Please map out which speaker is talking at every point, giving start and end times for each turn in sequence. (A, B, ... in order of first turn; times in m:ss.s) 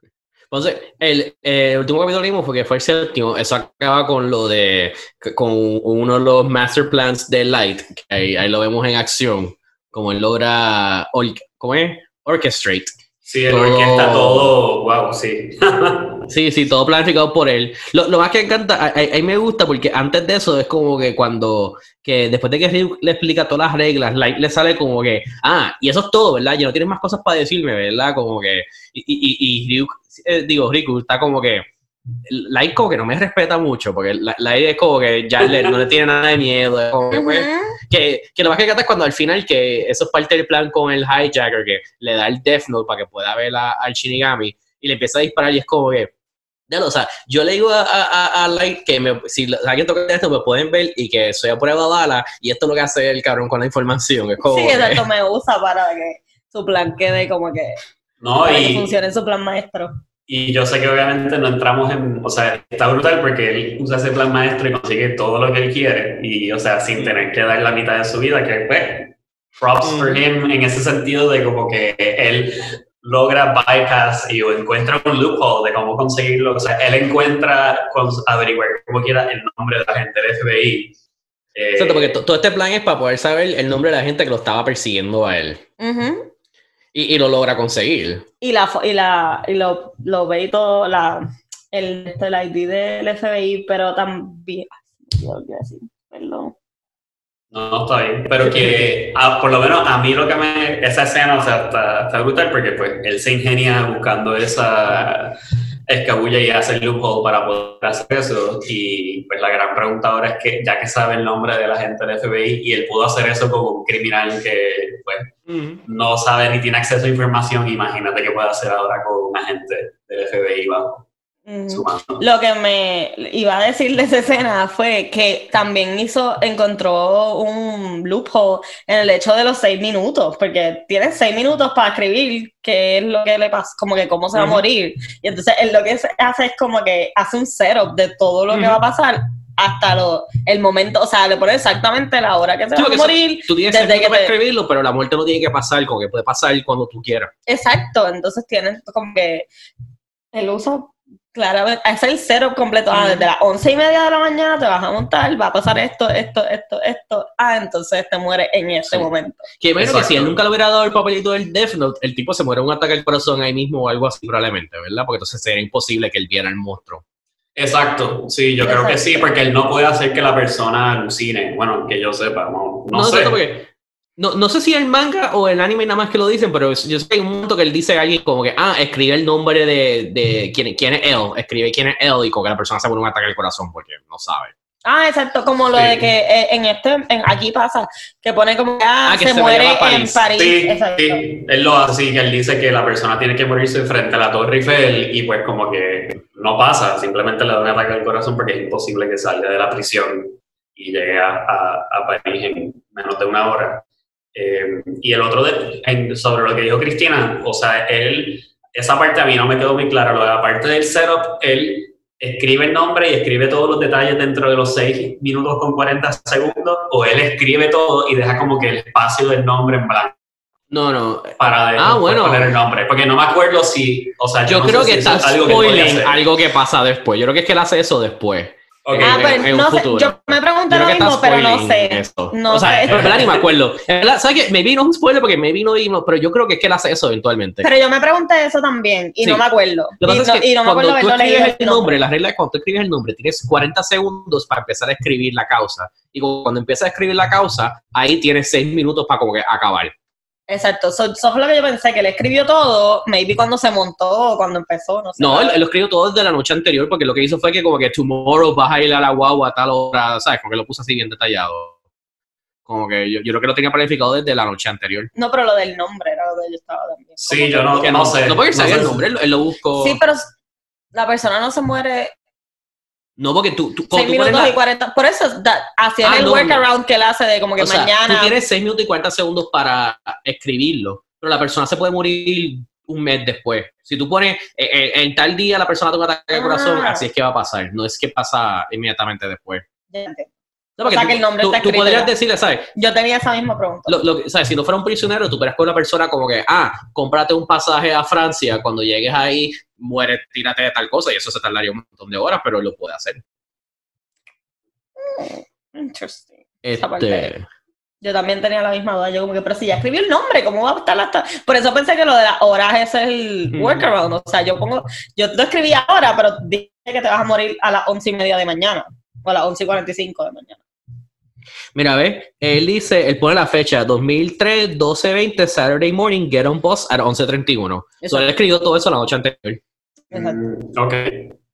0:00.5-0:12.9 A
0:13.3-0:16.3 B
0:13.5-0:14.5 A
0:16.3-0:31.7 A
0:32.2-0:46.1 A
0:37.1-0:37.8 C
0:46.7-0:55.0 A
0:54.4-0:57.8 C
0:58.2-0:59.0 B
0:58.4-0:59.9 C
1:00.3-1:20.9 B
1:07.0-1:07.3 A
1:09.8-1:10.2 A
1:21.6-1:22.2 B
1:21.8-1:25.6 A
1:25.8-1:26.3 C
1:26.9-1:28.2 A
1:28.4-1:36.6 C
1:37.5-1:55.3 B
1:55.5-1:55.8 A
1:55.8-2:01.0 B
2:01.5-2:24.3 C
2:01.7-2:02.2 B
2:14.4-2:14.6 A
2:18.5-2:18.8 A
2:22.8-2:27.3 A
2:27.5-2:29.5 C
2:30.3-2:39.5 C
2:32.9-2:33.3 A
2:39.6-2:47.0 A
2:39.8-2:40.4 B
2:47.6-2:53.4 B
2:48.6-2:49.3 C
2:52.9-3:04.5 A
3:04.8-3:11.2 C
3:05.7-3:06.1 B
3:09.1-3:10.2 A
3:10.4-3:40.1 B
3:40.7-3:42.6 A
3:41.4-3:46.2 B
3:44.5-3:57.7 A
3:48.9-3:49.5 B
3:49.0-3:53.2 C
3:52.9-3:53.4 B
3:57.6-4:02.0 C
4:00.0-4:09.9 A
4:10.5-4:15.6 C
4:15.2-4:21.8 A
4:22.7-4:25.1 A
4:25.2-4:28.1 C
4:27.2-4:29.0 B
4:27.8-4:30.0 A
4:29.8-4:30.3 C
4:31.0-4:32.1 C
4:33.2-4:34.6 A
4:33.9-4:38.4 C
4:36.0-4:36.6 A
4:37.6-4:49.6 A
4:46.3-4:47.1 C
4:49.9-4:50.3 C
4:50.8-4:52.7 A
4:50.8-4:52.1 C
4:52.8-4:54.0 C
4:53.9-5:03.2 A
5:05.0-5:07.3 C
5:06.6-5:07.5 A
5:08.0-5:20.6 C
5:13.5-5:13.9 A
5:21.8-5:29.6 A
5:28.0-5:28.3 C
5:30.1-5:30.4 C
5:30.1-5:31.3 B